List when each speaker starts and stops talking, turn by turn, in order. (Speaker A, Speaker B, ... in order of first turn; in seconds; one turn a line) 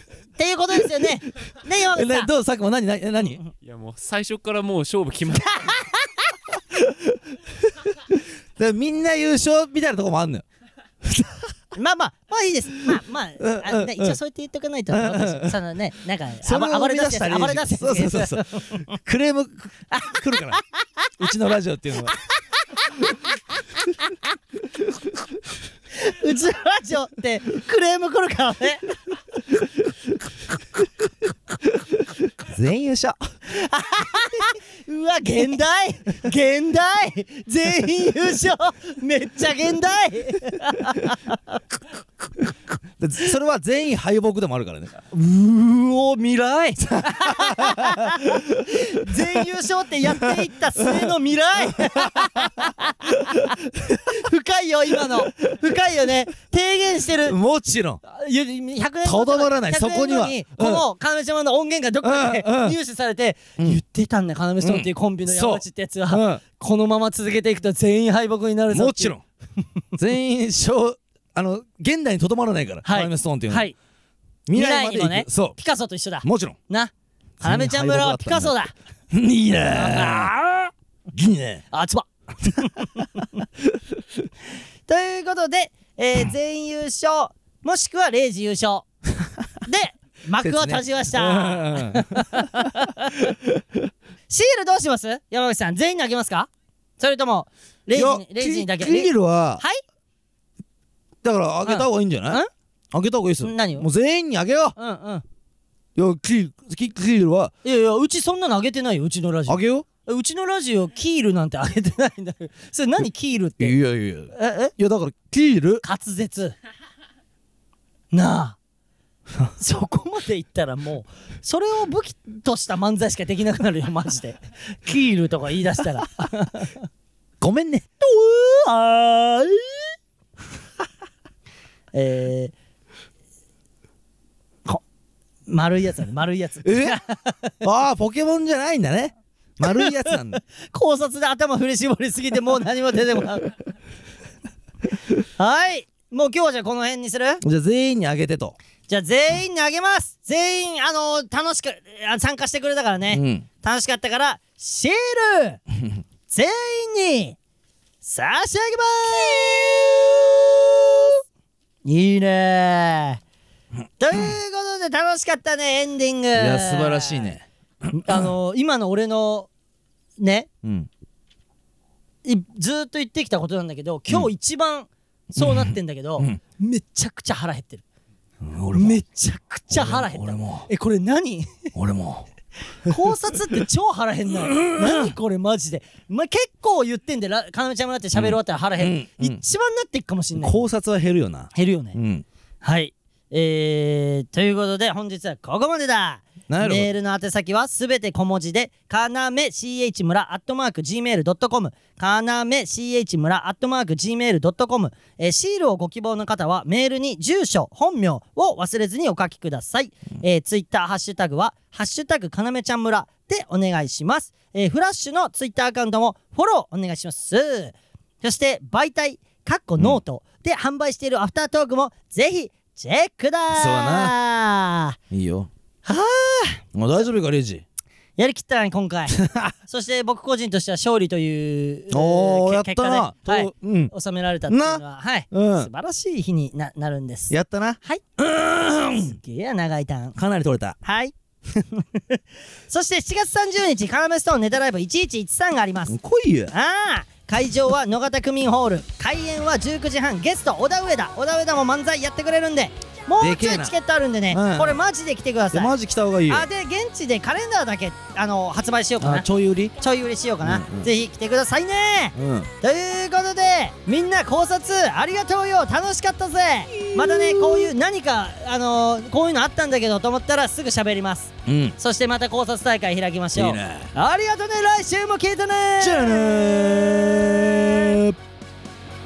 Speaker A: 0.4-2.3
Speaker B: 1.9-3.4
Speaker C: 3.6-5.9
Speaker B: 8.1-10.4
Speaker B: 11.0-11.5
Speaker A: 11.7-18.9
Speaker B: 13.4-14.2
Speaker B: 14.9-15.6
Speaker B: 16.4-20.6
Speaker A: 19.9-20.6
Speaker B: 21.2-22.1
Speaker A: 22.7-23.1
Speaker A: 26.0-29.0
Speaker B: 32.4-33.2
Speaker A: 33.5-41.6
Speaker B: 43.0-45.0
Speaker A: 45.1-57.4
Speaker B: 47.1-49.4
Speaker B: 50.0-51.1
Speaker B: 51.7-54.0
Speaker B: 57.2-58.0
Speaker A: 58.0-69.1
Speaker B: 59.0-60.9
Speaker B: 62.0-62.8
Speaker B: 64.6-66.4
Speaker B: 68.7-69.2
Speaker B: 70.0-73.7
Speaker A: 72.8-73.8
Speaker B: 74.5-75.6
Speaker A: 74.5-78.7
Speaker B: 76.2-76.6
Speaker B: 77.4-78.5
Speaker B: 79.1-80.3
Speaker A: 79.7-80.7
Speaker B: 81.1-81.6
Speaker A: 81.7-83.4
Speaker A: 84.9-88.8
Speaker A: 89.7-93.3
Speaker B: 90.4-93.8
Speaker A: 94.3-99.8
Speaker B: 97.9-99.6
Speaker B: 101.2-102.4
Speaker A: 101.7-102.5
Speaker B: 102.9-104.8
Speaker A: 103.4-103.8
Speaker A: 104.8-105.2
Speaker B: 105.9-107.5
Speaker A: 107.6-113.8
Speaker B: 109.5-109.8
Speaker B: 113.6-115.8
Speaker A: 114.3-114.7
Speaker A: 115.8-116.5
Speaker A: 118.1-118.6
Speaker A: 119.6-126.7
Speaker B: 127.4-127.9
Speaker A: 128.0-129.8
Speaker A: 131.9-132.5
Speaker A: 135.5-137.5
Speaker B: 136.6-137.0
Speaker B: 137.6-140.4
Speaker A: 139.6-140.2
Speaker A: 140.7-143.5
Speaker A: 145.4-147.4
Speaker B: 147.4-148.6
Speaker A: 148.9-155.6
Speaker B: 153.1-153.4
Speaker A: 156.3-157.4
Speaker A: 158.0-161.2
Speaker A: 161.8-163.2
Speaker A: 164.0-167.3
Speaker B: 166.3-168.2
Speaker A: 167.9-169.5
Speaker A: 170.2-170.5
Speaker B: 170.6-170.9
Speaker A: 172.2-177.8
Speaker B: 175.3-176.4
Speaker B: 178.4-179.0
Speaker A: 178.7-181.7
Speaker B: 179.7-180.7
Speaker B: 181.7-182.3
Speaker A: 182.8-190.6
Speaker B: 184.4-185.1
Speaker B: 188.1-189.4
Speaker B: 190.4-192.2
Speaker A: 191.5-192.0
Speaker A: 192.6-225.0
Speaker B: 196.5-196.9
Speaker B: 223.5-224.1
Speaker B: 225.1-225.5
Speaker A: 225.8-226.6
Speaker B: 226.7-227.6
Speaker A: 228.2-237.3
Speaker B: 229.1-229.5
Speaker B: 231.9-233.9
Speaker B: 234.5-235.7
Speaker B: 237.3-239.2
Speaker A: 239.0-240.1
Speaker B: 240.2-240.8
Speaker A: 240.8-245.9
Speaker B: 245.9-246.5
Speaker A: 246.5-255.7
Speaker B: 253.2-253.7
Speaker B: 254.3-254.8
Speaker B: 255.5-256.5
Speaker A: 256.3-259.3
Speaker B: 259.0-259.7
Speaker A: 259.8-277.9
Speaker B: 260.4-260.9
Speaker B: 262.1-262.5
Speaker B: 266.7-267.7
Speaker B: 271.4-271.8
Speaker B: 273.3-273.9
Speaker B: 275.8-278.2